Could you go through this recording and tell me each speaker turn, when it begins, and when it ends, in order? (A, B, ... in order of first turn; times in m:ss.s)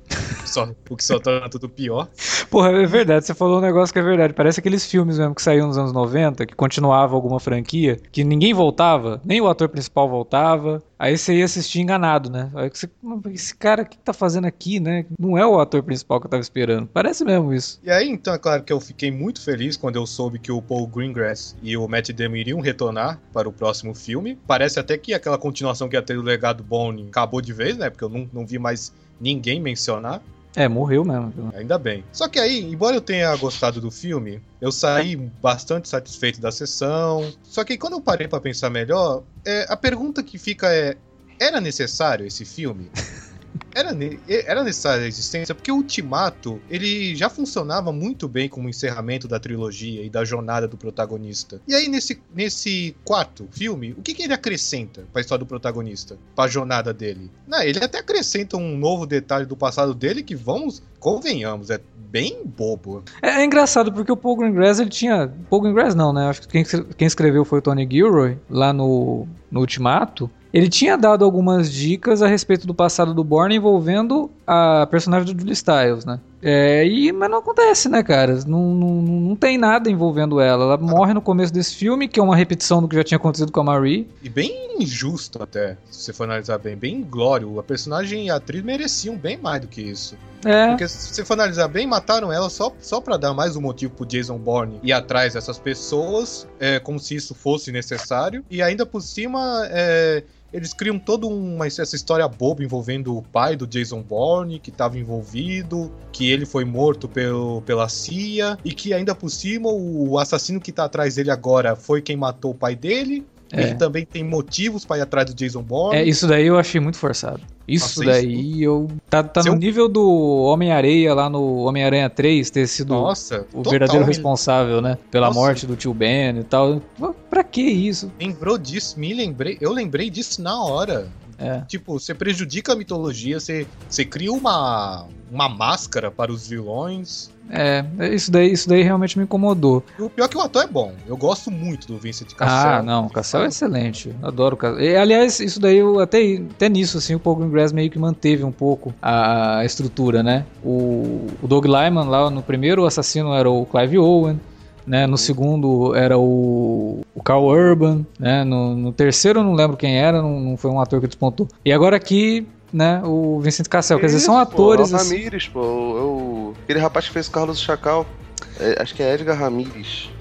0:00.4-0:02.1 A
0:02.4-0:17.8 B
0:17.8-0:30.2 A
0:30.6-0:31.5 B
0:31.5-0:42.9 A
0:43.7-1:03.0 A
1:03.2-1:24.1 B
1:24.2-1:56.1 A
1:30.4-1:30.8 B
1:53.5-1:53.8 B
1:55.9-2:08.1 B
1:57.8-1:58.5 A
2:02.9-2:04.3 A
2:05.2-2:05.6 A
2:08.2-2:17.3 A
2:11.4-2:11.7 B
2:17.5-2:19.8 B
2:20.0-2:23.6 A
2:22.4-2:45.2 B
2:35.0-2:35.3 C
2:43.9-2:50.1 C